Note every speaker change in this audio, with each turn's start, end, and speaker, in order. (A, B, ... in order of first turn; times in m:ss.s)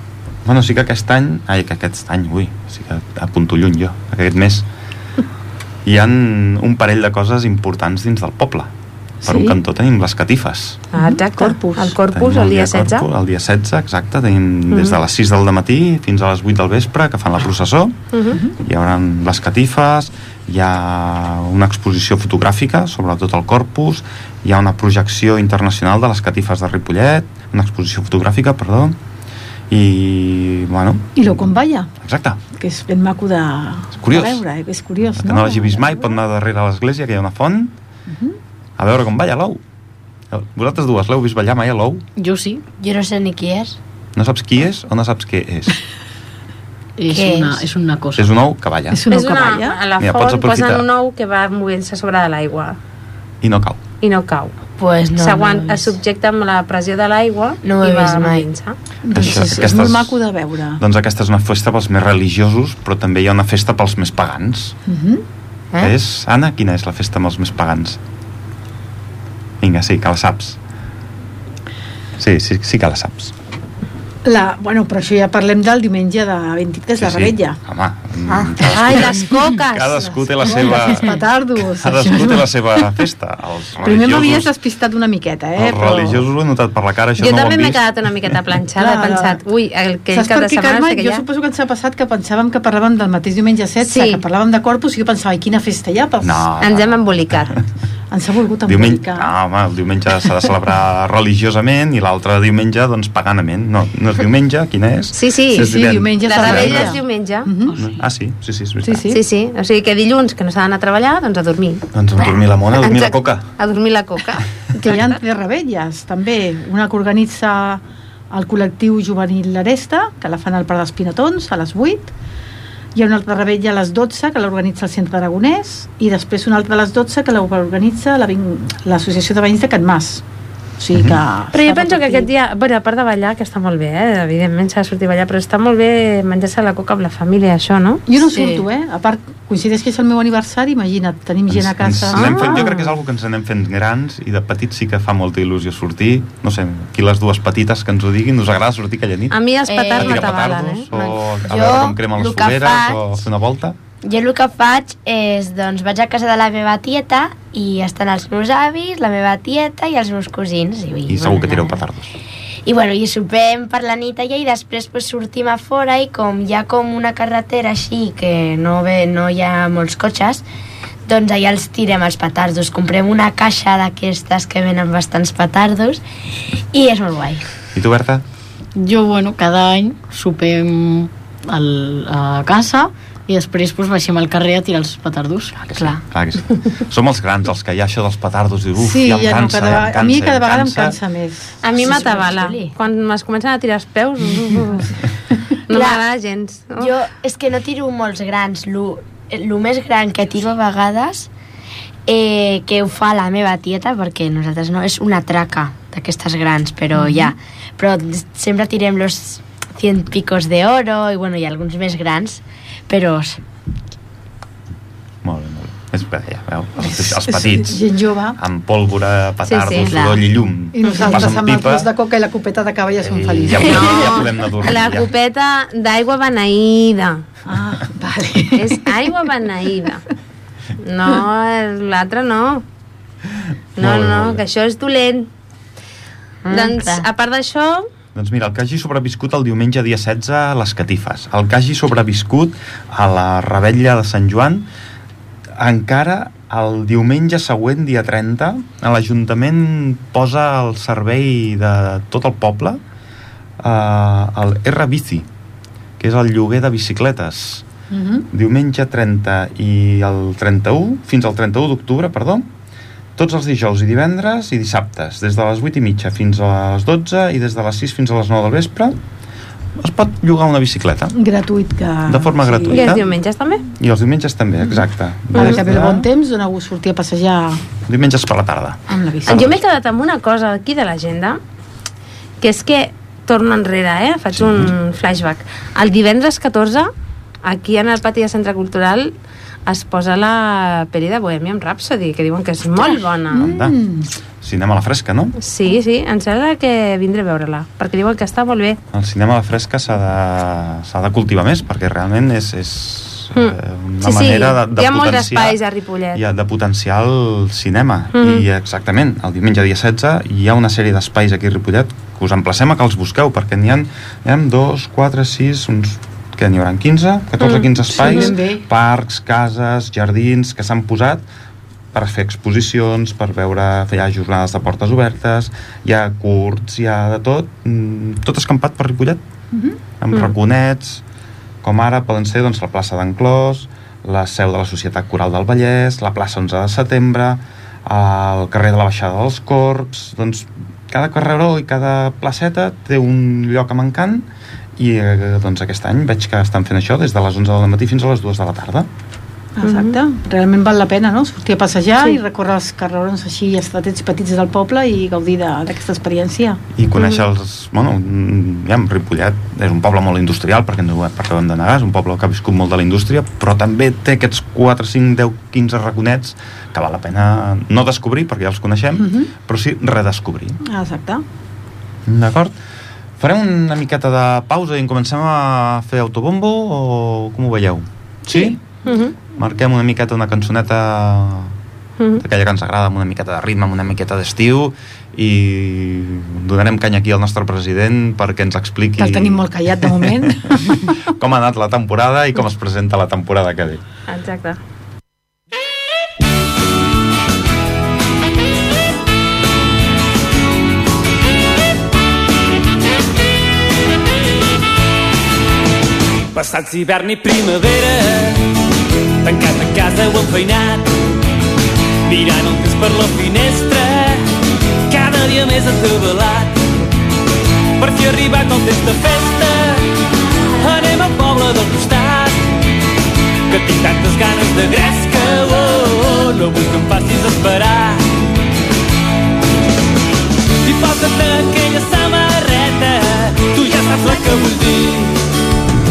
0:00.4-0:04.7 A
0:05.8-0:08.7 A
0:09.2-0:10.8 A
0:09.2-0:09.6 B
0:10.9-0:13.1 C
0:11.0-0:12.0 B
0:12.1-0:18.0 A
0:14.7-0:15.0 C
0:18.1-0:18.4 C
0:18.5-0:29.0 A
0:29.7-0:32.4 A
0:31.2-0:31.9 B
0:32.6-0:36.2 B
0:34.0-0:34.4 A
0:35.0-0:37.7 A
0:38.1-0:38.4 B
0:38.8-0:39.6 A
0:40.3-0:42.0 A
0:42.2-0:42.6 D
0:42.7-0:43.8 E
0:44.2-0:45.8 A
0:47.0-0:48.3 D
0:47.1-0:47.6 E
0:48.2-0:49.0 A
0:48.9-0:49.8 B
0:49.1-0:52.8 C
0:50.0-0:50.8 A
0:53.4-0:53.8 A
0:54.0-0:54.6 C
0:54.8-0:55.9 E
0:55.2-0:58.8 C
0:57.6-0:58.5 E
0:59.0-1:00.8 B
0:59.1-1:00.2 A
1:00.8-1:04.8 A
1:04.9-1:05.2 B
1:05.8-1:08.0 A
1:09.6-1:10.6 A
1:12.2-1:13.3 A
1:14.2-1:17.6 B
1:17.0-1:21.2 A
1:18.6-1:20.2 C
1:20.4-1:22.8 B
1:21.7-1:24.5 A
1:23.8-1:26.2 B
1:25.6-1:27.8 A
1:27.2-1:31.2 C
1:28.8-1:29.4 B
1:30.1-1:36.4 B
1:33.8-1:34.2 C
1:36.2-1:37.6 A
1:36.6-1:37.6 C
1:38.1-1:39.3 B
1:38.6-1:47.0 A
1:45.1-1:47.5 C
1:45.5-1:47.8 B
1:47.8-1:49.0 A
1:48.8-1:49.2 B
1:49.1-1:55.2 C
1:51.9-1:53.5 A
1:54.8-2:02.1 B
2:02.9-2:10.2 B
2:10.8-2:12.3 B
2:10.9-2:11.2 A
2:11.5-2:18.0 C
2:18.1-2:22.7 B
2:18.3-2:18.6 D
2:21.5-2:29.4 A
2:29.3-2:30.8 C
2:29.7-2:33.0 E
2:29.9-2:33.8 A
2:34.0-2:41.8 E
2:41.1-2:42.1 A
2:42.6-2:50.4 E
2:51.0-2:56.0 E
2:56.7-2:57.4 E
2:57.7-2:58.2 A
2:58.8-3:05.6 D
3:05.6-3:11.0 A
3:05.7-3:06.0 E
3:08.8-3:11.9 B
3:11.6-3:14.9 C
3:11.7-3:12.7 E
3:15.7-3:17.0 C
3:15.7-3:16.0 E
3:16.8-3:21.3 E
3:22.1-3:33.4 E
3:27.0-3:27.2 B
3:35.2-3:37.8 A
3:36.8-3:38.4 B
3:38.3-3:41.9 A
3:39.4-3:40.0 C
3:39.8-3:40.2 E
3:40.7-3:44.1 B
3:43.0-3:45.1 A
3:43.5-3:47.2 C
3:47.5-3:49.2 B
3:48.6-3:50.0 C
3:50.8-3:52.6 C
3:53.8-3:55.3 C
3:53.8-3:54.4 A
3:56.4-3:57.1 E
3:56.5-3:57.9 C
3:58.1-4:04.7 A
4:05.6-4:12.8 A
4:13.6-4:15.3 A
4:16.0-4:17.6 A
4:17.9-4:18.3 B
4:18.3-4:22.5 A
4:23.2-4:29.0 A
4:29.8-4:31.2 A
4:31.1-4:33.0 B
4:32.0-4:33.1 A
4:32.7-4:33.6 C
4:33.8-4:36.1 A
4:35.3-4:37.6 B
4:37.8-4:39.6 A
4:38.9-4:39.4 B
4:39.3-4:41.4 C
4:42.4-4:46.9 C
4:44.3-4:44.7 A
4:47.4-4:49.1 C
4:49.6-4:53.5 C
4:53.3-4:54.1 B
4:53.3-4:53.8 A
4:54.4-4:55.4 A
4:55.4-4:58.8 C
4:58.9-5:05.6 A
5:03.3-5:06.2 C
5:06.1-5:21.2 A
5:08.1-5:08.4 C
5:17.4-5:18.3 C
5:17.8-5:18.6 B
5:21.9-5:29.2 A
5:29.5-5:29.8 B
5:30.0-5:31.0 A
5:31.6-5:44.2 A
5:44.8-5:48.9 A
5:49.6-5:56.6 B
5:49.6-5:50.0 C
5:56.7-6:10.6 A
5:57.0-5:57.2 C
6:09.0-6:09.3 B
6:10.6-6:11.2 B
6:12.0-6:12.6 A
6:13.2-6:18.6 A
6:18.3-6:18.6 B
6:18.8-6:19.1 C
6:19.3-6:21.5 A
6:22.0-6:22.2 C
6:22.2-6:33.8 A
6:29.0-6:31.0 B
6:34.1-6:34.6 C
6:46.3-6:48.5 F
6:49.2-6:50.9 F
6:52.0-6:54.3 F
6:54.9-6:56.6 F
6:57.8-6:59.9 F
7:00.6-7:02.4 F
7:03.5-7:08.1 F
7:10.6-7:15.2 F